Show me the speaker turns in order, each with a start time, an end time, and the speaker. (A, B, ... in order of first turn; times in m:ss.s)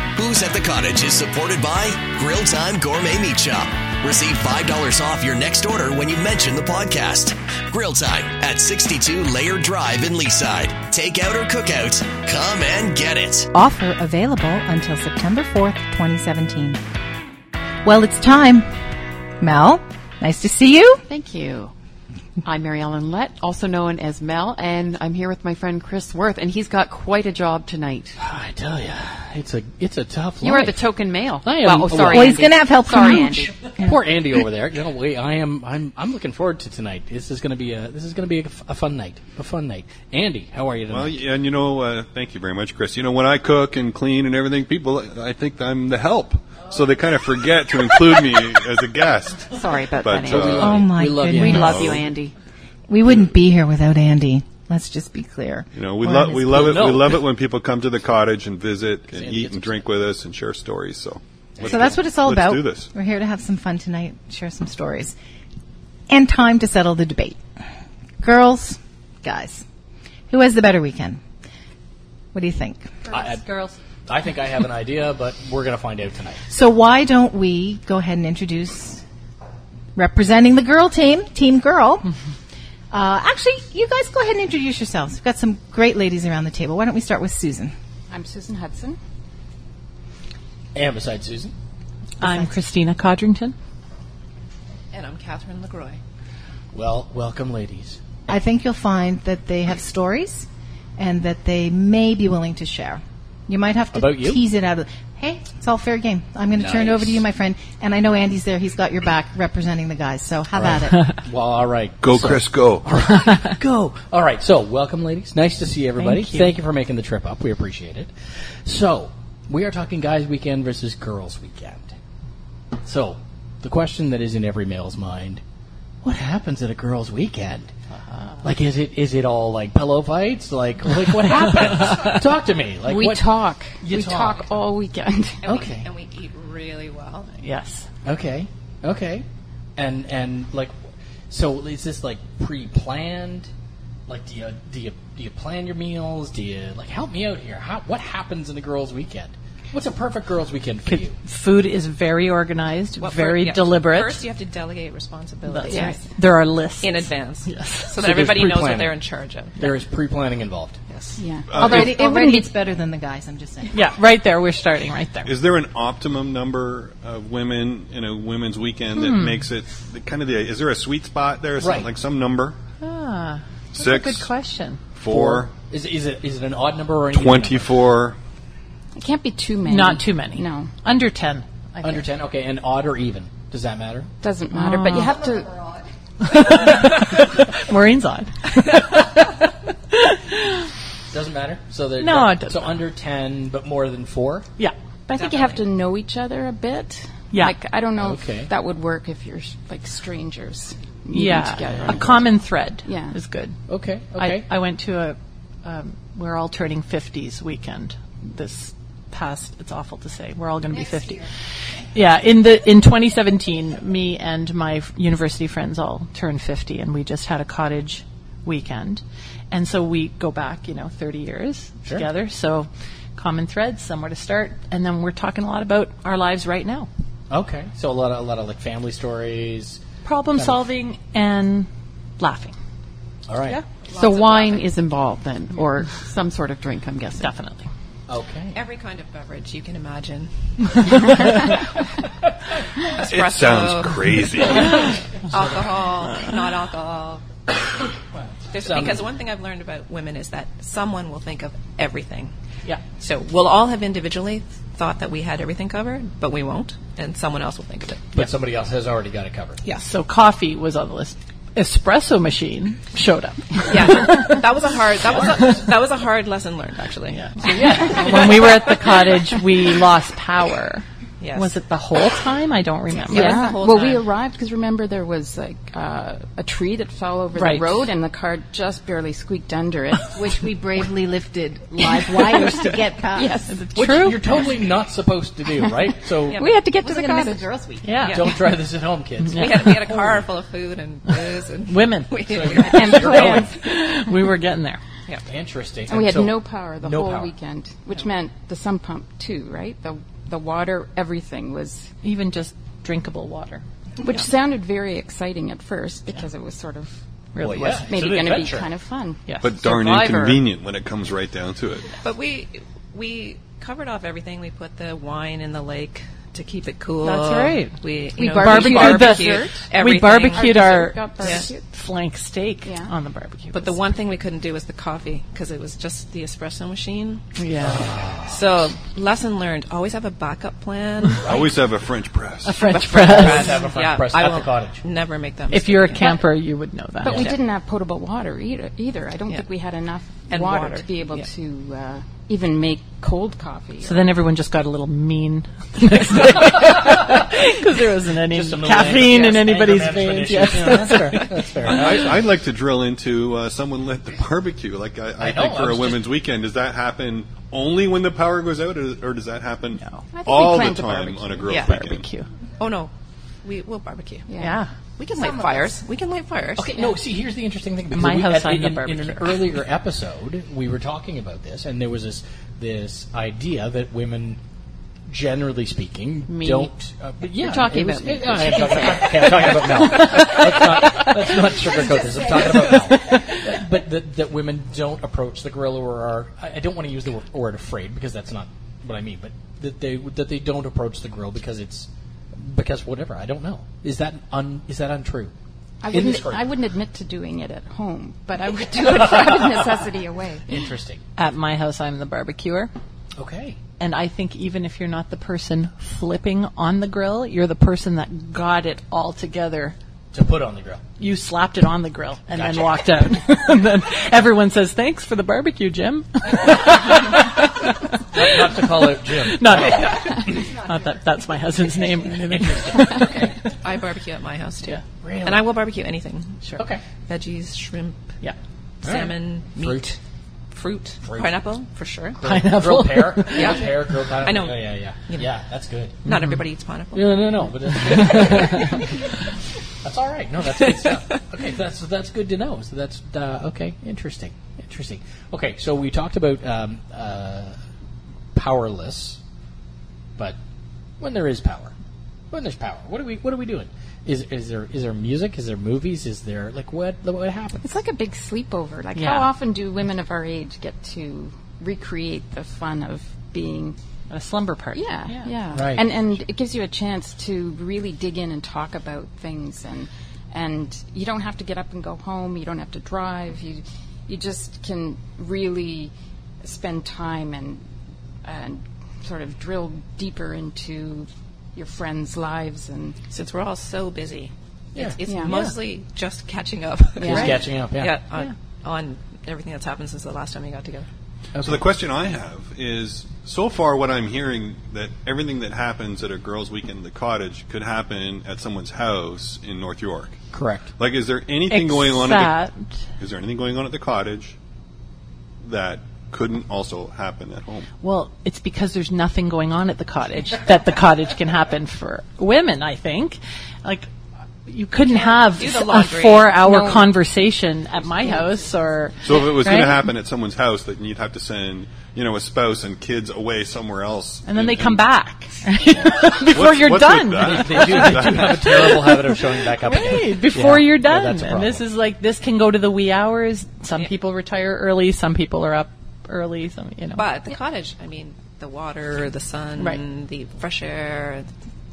0:00.2-0:13.5 A
0:13.5-0:16.8 B
0:17.8-0:18.7 B
0:19.4-0:21.0 B
0:21.1-0:21.7 C
0:22.4-0:28.2 C
0:28.2-0:30.9 D
0:30.4-0:33.7 C
0:31.4-0:32.4 D
0:31.9-0:34.5 B
0:33.7-0:41.2 D
0:40.9-0:51.0 E
0:49.6-0:50.8 C
0:50.3-0:52.0 D
0:50.6-0:52.0 B
0:51.4-0:52.3 C
0:51.5-0:52.0 E
0:52.9-0:56.6 B
0:55.7-1:02.9 E
0:56.5-0:57.2 D
0:59.1-0:59.8 D
1:01.6-1:05.2 B
1:06.1-1:07.4 B
1:08.2-1:09.7 B
1:10.3-1:11.2 B
1:12.3-1:13.0 B
1:13.1-1:13.5 D
1:13.2-1:13.7 F
1:14.1-1:16.4 D
1:16.5-1:19.0 B
1:20.0-1:22.1 B
1:22.9-1:27.7 B
1:28.1-1:29.0 G
1:30.7-1:31.5 D
1:32.2-1:33.6 F
1:32.2-1:32.5 B
1:34.9-1:36.0 H
1:36.7-1:38.0 D
1:38.3-1:51.1 B
1:43.9-1:44.5 D
1:46.6-1:47.2 D
1:50.5-2:01.9 D
1:52.0-1:53.0 E
1:56.0-1:56.6 F
2:02.8-2:05.4 D
2:06.0-2:07.7 D
2:07.9-2:08.5 F
2:08.4-2:14.6 D
2:11.2-2:12.2 F
2:12.8-2:15.4 G
2:15.4-2:17.3 H
2:15.4-2:15.9 D
2:17.4-2:17.9 F
2:18.0-2:19.3 D
2:19.8-2:20.7 D
2:21.3-2:23.5 D
2:24.1-2:31.2 D
2:30.9-2:34.2 F
2:33.0-2:36.0 H
2:35.5-2:38.0 F
2:35.7-2:36.0 G
2:36.8-2:39.6 H
2:38.0-2:39.0 D
2:39.6-2:40.8 D
2:40.9-2:41.2 H
2:41.2-2:42.5 G
2:41.5-2:42.0 E
2:41.5-2:43.9 B
2:43.7-2:45.3 F
2:45.3-2:52.6 E
2:49.0-2:49.4 F
2:51.6-2:51.9 D
2:52.8-2:54.8 F
2:53.7-2:54.3 E
2:55.0-2:55.5 E
2:55.1-2:57.8 D
2:57.1-2:58.2 E
2:59.0-3:00.7 G
2:59.6-3:02.1 F
3:01.8-3:04.1 D
3:04.2-3:05.7 G
3:04.5-3:05.1 F
3:06.2-3:10.7 F
3:11.1-3:14.5 D
3:12.0-3:12.8 F
3:15.1-3:22.3 G
3:15.2-3:15.7 H
3:18.0-3:18.5 D
3:21.1-3:23.6 F
3:22.8-3:23.2 G
3:23.7-3:24.5 D
3:24.2-3:31.3 F
3:31.9-3:46.9 F
3:47.3-3:49.8 D
3:50.0-3:52.6 F
3:50.4-3:50.6 D
3:53.3-3:53.6 D
3:53.7-3:54.8 H
3:53.9-3:57.3 C
3:57.2-3:57.7 F
3:58.1-3:58.6 D
3:58.5-4:01.6 H
4:00.9-4:01.4 F
4:02.8-4:07.2 H
4:03.1-4:04.9 E
4:08.5-4:12.3 H
4:08.6-4:09.1 D
4:13.0-4:18.1 H
4:18.1-4:19.6 D
4:19.6-4:24.4 F
4:23.7-4:28.1 H
4:25.0-4:25.7 D
4:27.1-4:33.5 F
4:27.4-4:28.6 D
4:31.2-4:31.6 H
4:33.1-4:34.1 H
4:33.1-4:40.2 G
4:37.4-4:37.9 F
4:40.1-4:43.5 B
4:43.1-4:43.6 G
4:43.5-4:44.4 F
4:43.8-4:46.5 D
4:46.3-4:47.4 G
4:46.7-4:47.9 B
4:47.8-4:48.4 F
4:48.0-4:48.3 H
4:48.1-4:50.2 D
4:49.2-4:49.8 F
4:49.4-4:53.0 H
4:51.7-4:54.8 F
4:52.3-4:53.5 D
4:52.7-4:54.0 G
4:55.3-4:57.3 D
4:55.9-5:01.9 G
5:02.0-5:03.6 F
5:04.0-5:07.0 G
5:07.4-5:07.9 F
5:07.4-5:08.7 D
5:07.9-5:09.3 G
5:09.3-5:10.4 F
5:09.4-5:11.9 E
5:12.0-5:21.5 H
5:17.0-5:17.8 F
5:18.2-5:19.6 G
5:18.3-5:23.7 F
5:20.3-5:21.6 G
5:22.6-5:22.9 G
5:23.5-5:27.2 H
5:27.4-5:27.9 F
5:27.6-5:28.4 D
5:28.3-5:31.5 H
5:31.2-5:32.7 E
5:32.4-5:33.7 F
5:32.6-5:36.2 H
5:32.9-5:34.8 D
5:35.5-5:37.3 F
5:37.0-5:44.1 G
5:37.1-5:37.3 D
5:37.1-5:37.4 H
5:40.3-5:41.3 H
5:43.8-5:51.4 F
5:46.8-5:47.1 D
5:48.2-5:52.3 D
5:51.6-6:02.1 E
5:55.2-5:56.1 D
6:00.1-6:01.5 G
6:01.5-6:01.7 H
6:01.5-6:02.3 F
6:02.6-6:02.9 H
6:03.4-6:04.3 H
6:04.3-6:04.6 G
6:04.4-6:04.7 F
6:05.0-6:06.9 H
6:05.2-6:05.5 G
6:06.6-6:14.4 D
6:07.9-6:09.6 F
6:15.1-6:35.3 D
6:16.3-6:16.7 F
6:17.4-6:19.8 C
6:22.7-6:23.5 F
6:35.8-6:40.7 G
6:35.9-6:36.5 D
6:38.8-6:39.7 D
6:40.5-6:41.0 D
6:41.2-6:42.7 F
6:43.2-6:43.6 D
6:43.8-6:49.8 F
6:50.1-6:50.9 D
6:51.0-7:03.3 F
6:52.3-6:53.1 D
6:58.1-7:00.5 D
7:02.2-7:03.4 D
7:03.6-7:06.4 H
7:05.0-7:05.5 D
7:06.6-7:06.8 D
7:07.1-7:08.0 H
7:08.8-7:10.0 H
7:08.8-7:09.9 D
7:10.5-7:12.2 H
7:11.0-7:11.4 D
7:12.2-7:16.0 D
7:12.2-7:13.7 F
7:13.3-7:15.3 H
7:16.0-7:17.4 H
7:16.1-7:16.4 F
7:16.9-7:19.1 D
7:17.7-7:18.8 F
7:19.8-7:27.6 D
7:20.6-7:21.1 H
7:28.3-7:29.2 D
7:31.0-7:31.7 D
7:32.3-7:37.6 D
7:37.6-7:43.8 G
7:39.0-7:39.3 F
7:44.1-7:45.4 F
7:44.8-7:55.9 G
7:45.5-7:45.9 D
7:56.4-7:57.6 G
7:58.2-8:03.0 G
8:03.1-8:10.9 H
8:04.8-8:05.6 D
8:05.0-8:05.4 G
8:07.0-8:07.5 G
8:07.0-8:08.0 D
8:11.4-8:11.7 D
8:11.4-8:20.2 E
8:20.3-8:20.7 D
8:20.8-8:22.4 E
8:21.5-8:22.7 F
8:23.0-8:24.4 E
8:25.4-8:27.7 E
8:27.8-8:33.9 F
8:34.5-8:39.8 F
8:35.2-8:36.4 H
8:36.4-8:37.1 G
8:37.9-8:38.4 G
8:39.0-8:44.8 E
8:44.3-8:57.1 F
8:45.8-8:48.6 E
8:47.2-8:51.6 D
8:57.0-9:01.3 H